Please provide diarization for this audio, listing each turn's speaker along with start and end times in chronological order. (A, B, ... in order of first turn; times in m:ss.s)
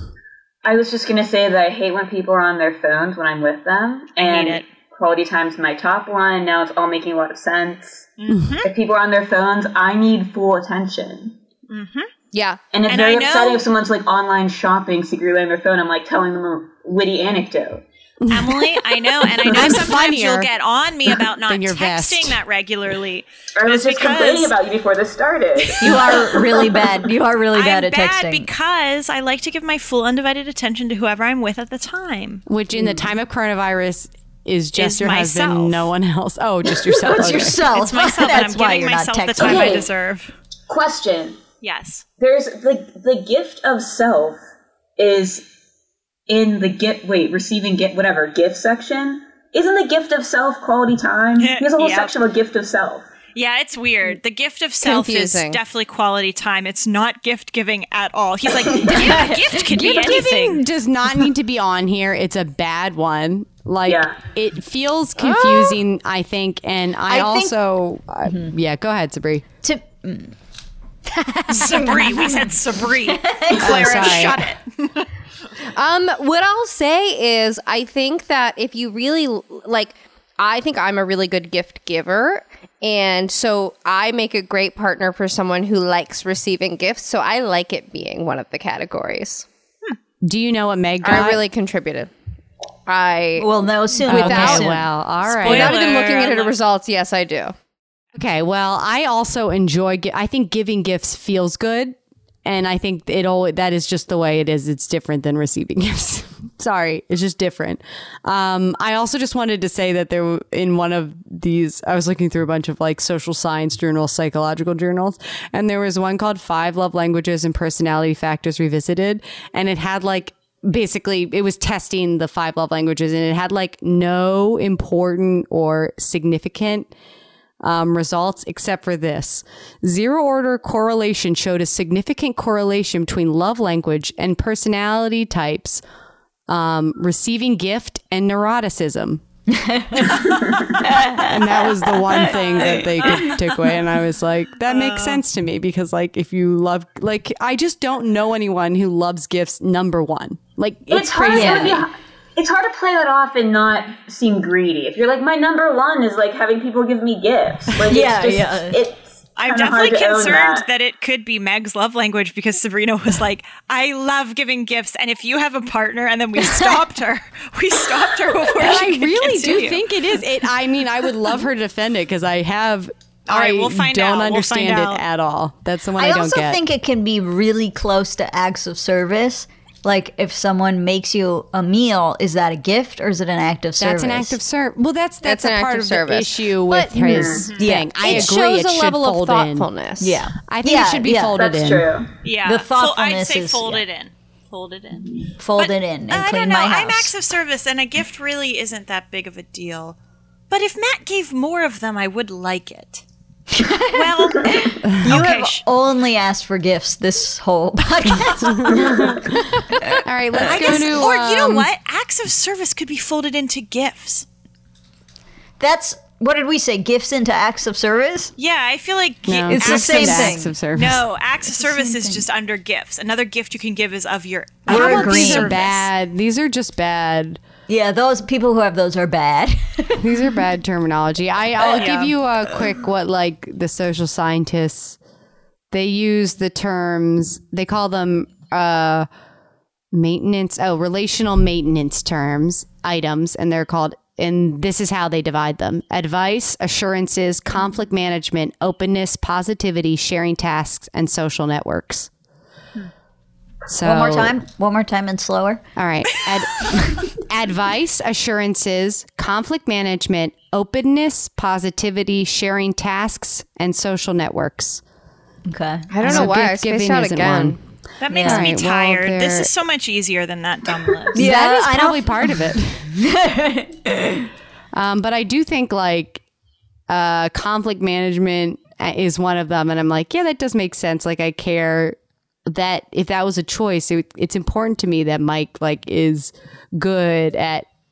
0:00.6-0:08.1 A
0:04.2-0:04.6 B
0:08.2-0:08.7 B
0:08.6-0:11.4 A
0:11.7-0:12.1 B
0:12.3-0:12.6 C
0:12.7-0:17.8 A
0:12.9-0:13.6 B
0:18.2-0:18.7 D
0:18.3-0:24.5 B
0:19.4-0:20.5 D
0:21.5-0:22.4 D
0:23.6-0:26.8 A
0:25.6-0:26.0 B
0:25.8-0:28.5 E
0:27.5-0:32.4 B
0:32.5-0:37.6 D
0:34.8-0:35.9 B
0:37.0-0:39.8 E
0:37.7-0:40.3 B
0:39.4-0:39.9 A
0:40.7-0:41.4 A
0:41.6-0:42.0 B
0:42.2-0:44.4 A
0:45.0-0:45.5 A
0:46.3-0:53.1 A
0:51.4-0:52.1 B
0:53.3-1:00.6 B
0:54.8-0:55.6 C
0:58.6-1:00.3 E
0:59.7-1:09.4 D
1:03.8-1:04.2 A
1:05.2-1:05.8 C
1:07.1-1:07.5 E
1:08.2-1:08.5 E
1:09.6-1:10.3 E
1:11.1-1:12.5 E
1:11.5-1:15.0 B
1:13.0-1:14.5 E
1:13.6-1:14.4 D
1:15.7-1:29.4 C
1:30.2-1:31.4 D
1:31.0-1:32.1 C
1:32.9-1:34.7 C
1:33.4-1:34.9 E
1:34.1-1:35.8 D
1:35.3-1:36.5 B
1:35.4-1:37.5 C
1:38.1-2:06.9 D
2:07.6-2:15.8 D
2:16.5-2:19.2 D
2:19.5-2:23.0 E
2:21.2-2:31.9 D
2:22.2-2:23.6 B
2:24.7-2:25.2 B
2:30.9-2:40.6 A
2:31.3-2:31.8 E
2:37.9-2:38.8 E
2:39.4-2:49.8 B
2:46.4-2:46.8 E
2:48.6-2:56.6 D
2:53.3-2:55.0 B
2:56.0-3:04.4 E
3:03.8-3:09.7 D
3:05.2-3:06.9 C
3:07.0-3:07.5 A
3:07.6-3:08.3 E
3:08.0-3:10.2 C
3:10.0-3:11.4 E
3:10.4-3:11.9 D
3:11.4-3:12.1 A
3:12.2-3:20.0 B
3:12.4-3:13.8 E
3:15.4-3:17.1 E
3:20.5-3:23.0 B
3:23.5-3:30.9 E
3:23.9-3:25.6 B
3:28.4-3:29.4 D
3:29.9-3:31.7 D
3:30.4-3:34.2 B
3:35.6-3:38.3 E
3:38.4-3:45.9 B
3:39.3-3:41.0 D
3:39.5-3:40.5 E
3:41.6-3:42.2 E
3:44.6-3:45.6 E
3:44.7-3:47.4 D
3:47.7-3:50.0 E
3:50.0-3:55.0 D
3:51.7-3:52.1 B
3:55.7-3:59.1 D
3:59.9-4:12.1 D
4:13.7-4:14.3 D
4:13.8-4:15.6 E
4:15.8-4:24.8 D
4:25.5-4:26.3 E
4:25.9-4:27.6 C
4:26.0-4:27.6 D
4:28.0-4:31.2 B
4:28.1-4:28.5 E
4:28.2-4:29.5 D
4:31.1-4:32.9 D
4:31.1-4:34.3 E
4:34.7-4:36.2 D
4:36.9-4:47.6 D